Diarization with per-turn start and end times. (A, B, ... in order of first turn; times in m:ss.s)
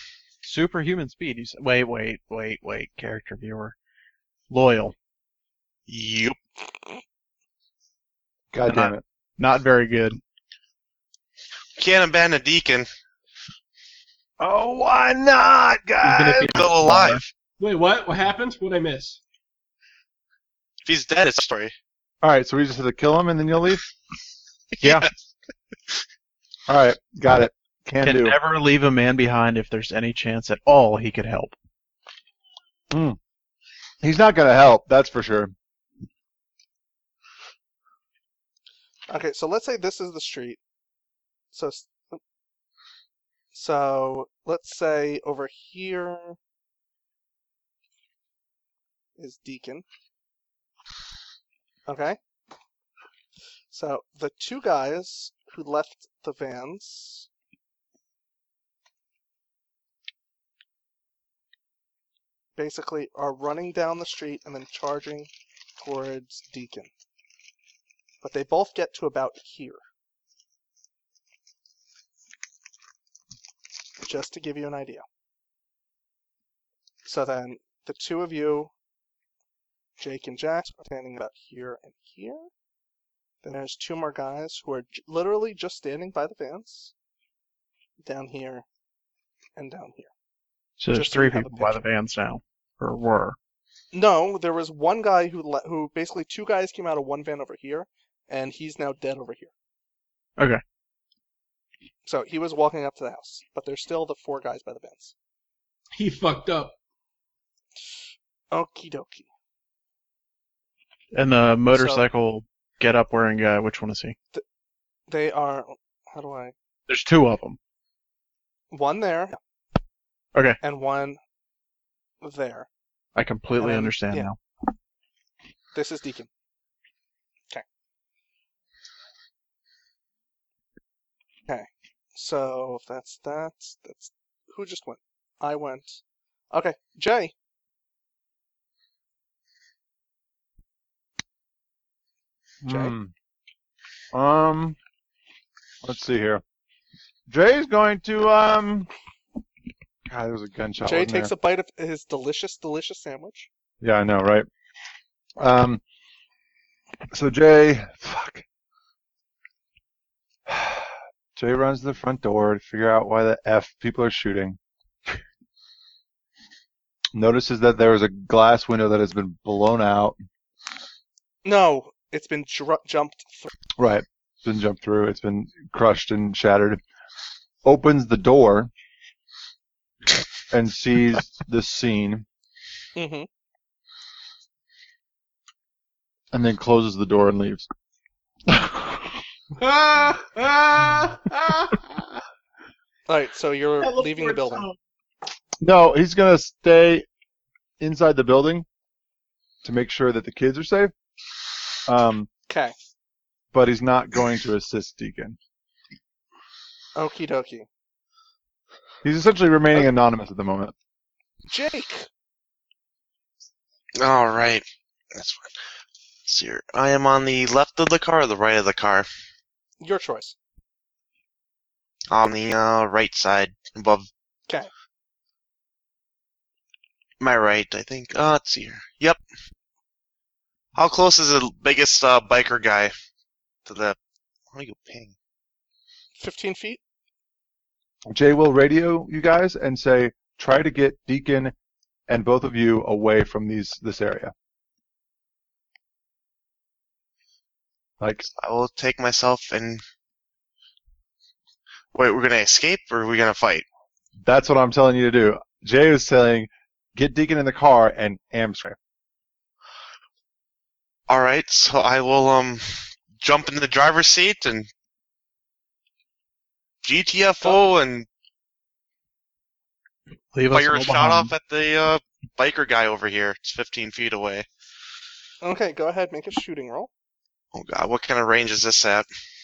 0:00.4-0:03.8 A
0:04.5-0:04.9 A
0:05.9-0:06.4 B
0:08.5-0:09.0 C
0:08.7-0:10.2 A
0:11.8-0:12.9 B
0:14.4-0:16.6 C
0:16.0-0:17.2 A
0:16.4-0:17.3 B
0:17.6-0:19.2 D
0:20.8-0:21.7 B
0:22.2-0:23.8 C
0:24.7-0:25.2 B
0:24.8-0:25.1 A
0:26.7-0:28.4 C
0:28.0-0:31.6 A
0:32.9-0:33.2 C
0:34.0-0:35.5 C
0:39.1-0:40.6 E
0:41.5-0:42.2 E
0:43.5-0:46.4 E
0:49.2-0:49.8 E
0:51.9-0:52.2 E
0:53.7-0:57.3 E
1:02.6-1:06.9 E
1:08.2-1:09.8 E
1:14.0-1:15.0 E
1:17.0-1:18.7 E
1:20.0-1:22.5 E
1:23.4-1:26.9 E
1:28.0-1:28.6 E
1:29.6-1:30.1 E
1:30.8-1:33.4 A
1:30.9-1:31.8 E
1:33.9-1:39.5 E
1:42.0-1:45.1 E
1:46.0-1:46.7 D
1:48.5-1:49.3 E
1:51.1-1:54.2 A
1:51.7-1:52.0 E
1:55.1-1:56.5 E
1:56.9-1:57.6 A
1:58.7-1:59.4 E
2:00.6-2:01.2 E
2:02.2-2:02.7 E
2:03.1-2:04.4 A
2:03.6-2:04.3 E
2:05.7-2:06.3 E
2:11.5-2:16.0 E
2:16.5-2:17.3 E
2:22.6-2:23.1 C
2:22.7-2:22.9 E
2:24.1-2:24.8 C
2:25.8-2:26.4 C
2:27.3-2:28.9 C
2:30.1-2:31.3 C
2:30.8-2:33.5 E
2:33.8-2:34.5 C
2:35.4-2:35.8 C
2:37.1-2:38.4 C
2:40.5-2:44.6 C
2:47.1-2:50.2 C
2:51.4-2:53.5 E
2:53.8-2:56.8 C
2:57.6-2:58.7 C
3:00.5-3:02.3 C
3:03.0-3:03.3 E
3:06.3-3:07.7 C
3:08.5-3:09.2 C
3:09.6-3:11.9 D
3:13.1-3:14.6 E
3:13.8-3:14.8 D
3:15.6-3:17.0 C
3:17.8-3:18.7 C
3:19.6-3:20.9 C
3:21.9-3:22.3 C
3:22.5-3:22.7 E
3:23.5-3:25.4 C
3:27.0-3:27.7 E
3:29.0-3:30.7 C
3:31.5-3:32.1 E
3:34.0-3:35.5 B
3:36.3-3:39.1 B
3:39.8-3:40.4 E
3:42.1-3:44.1 B
3:47.2-3:49.2 B
3:50.7-3:52.9 B
3:53.7-3:54.0 B
3:54.5-3:55.1 B
3:56.2-3:56.8 E
3:58.1-4:01.5 C
4:02.1-4:04.3 C
4:08.0-4:08.3 C
4:08.3-4:09.8 B
4:11.9-4:13.7 B
4:14.2-4:18.8 C
4:21.1-4:24.7 B
4:26.8-4:28.1 B
4:30.3-4:31.3 A
4:30.5-4:34.4 B
4:35.4-4:36.9 E
4:37.5-4:39.1 B